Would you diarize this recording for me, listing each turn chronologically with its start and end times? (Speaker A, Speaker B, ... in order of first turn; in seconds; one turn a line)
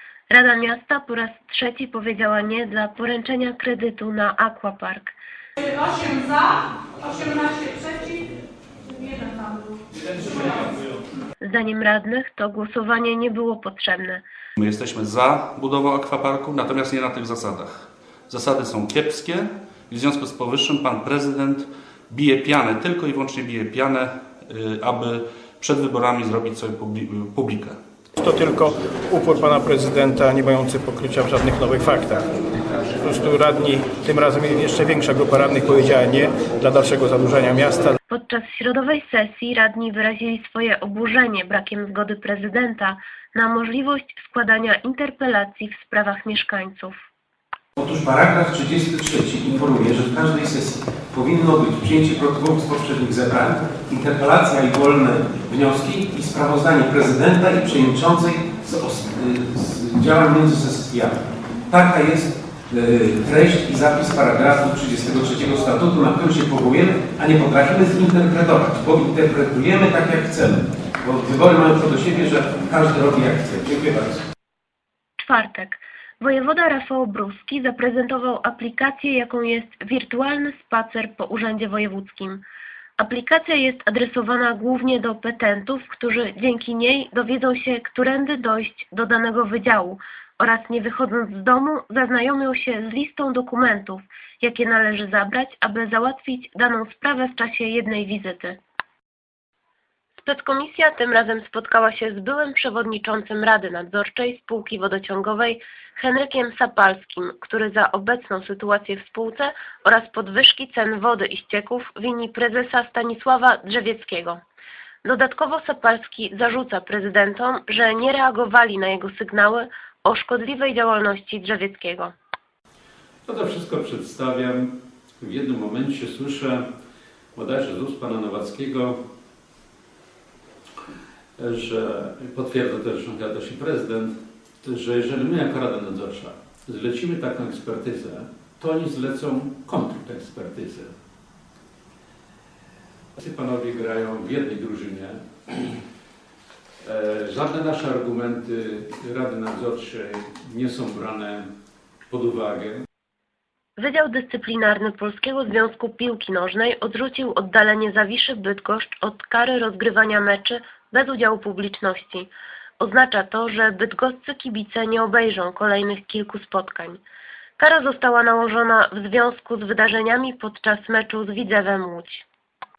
Speaker A: 0.3-5.2
Speaker B: 5.6-8.3
Speaker B: 8.9-9.8
Speaker A: 11.4-14.2
Speaker C: 14.6-27.8
Speaker D: 28.2-32.3
Speaker D: 33.0-38.0
Speaker A: 38.1-47.1
Speaker E: 47.8-74.2
Speaker A: 75.2-82.4
Speaker A: 83.0-98.6
Speaker A: 100.2-114.4
Speaker A: 115.0-122.1
Speaker F: 123.2-124.7
Speaker F: 125.2-126.6
Speaker F: 127.3-129.0
Speaker F: 131.4-134.1
Speaker F: 134.6-140.9
Speaker F: 143.2-145.8
Speaker F: 146.8-151.4
Speaker F: 152.1-152.8
Speaker A: 153.8-167.0
Speaker A: 167.6-172.3